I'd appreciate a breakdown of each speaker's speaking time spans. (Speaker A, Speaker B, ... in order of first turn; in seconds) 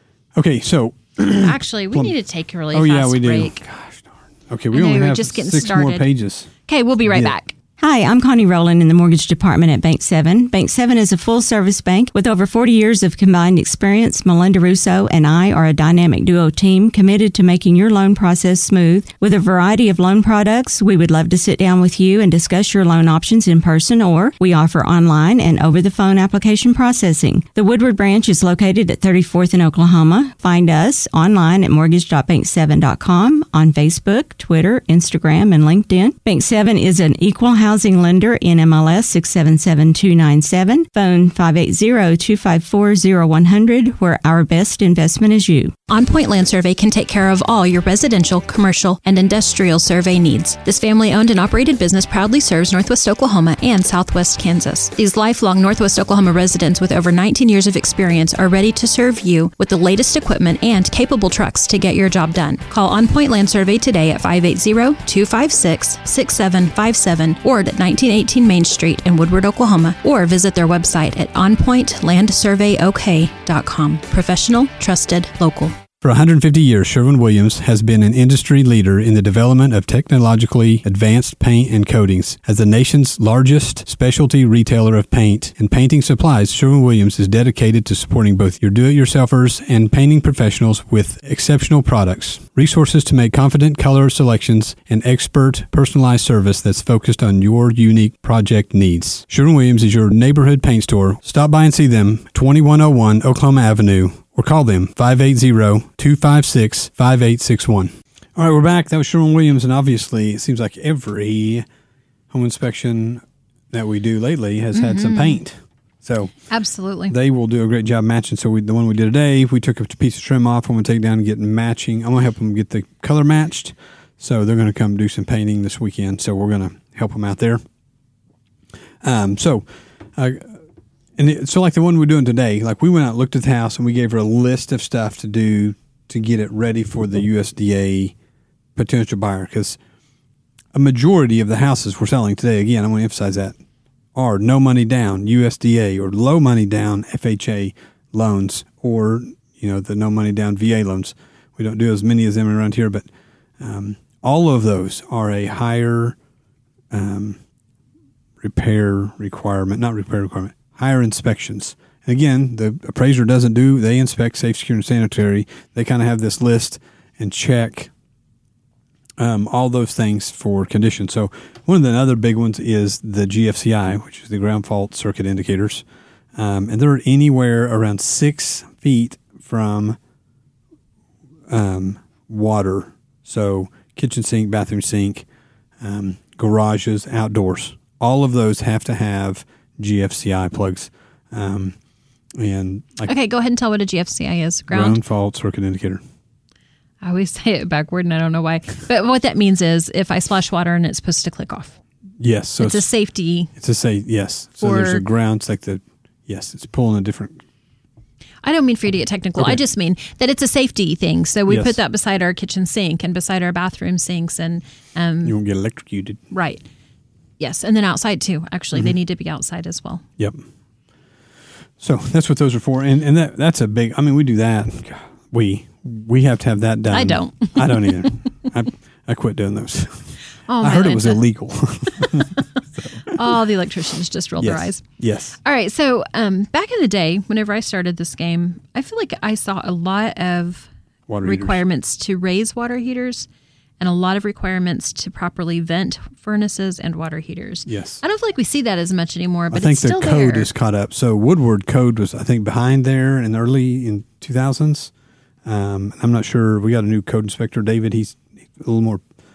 Speaker A: 0.3-2.1, 2.7-6.5, 7.1-7.3, 76.0-111.7, 112.3-116.4, 117.1-127.6, 129.0-130.6, 131.2-138.2, 138.8-139.8, 140.7-143.6, 144.2-153.1, 153.6-156.2, 156.9-157.4, 158.4-167.9, 169.2-175.8, 176.4-180.0, 181.5-185.3, 185.8-191.8, 192.3-193.1, 194.7-196.0, 202.2-202.9, 203.5-207.4, 209.4-209.6, 211.5-211.8, 215.2-216.2, 221.8-233.3, 234.4-235.4, 241.1-241.6, 247.7-248.0, 249.5-254.9, 255.4-259.1
Speaker B: 1.4-3.6, 4.7-6.1, 6.7-7.5, 45.9-75.7, 114.7-115.4, 116.5-117.1, 193.1-195.0, 197.0-201.8, 202.6-203.5, 204.6-205.0, 208.4-215.4, 216.3-216.6, 217.4-220.0, 226.9-228.1, 230.5-231.2, 233.1-234.8, 235.4-240.7, 241.2-243.3, 243.8-250.5
Speaker C: 7.8-45.7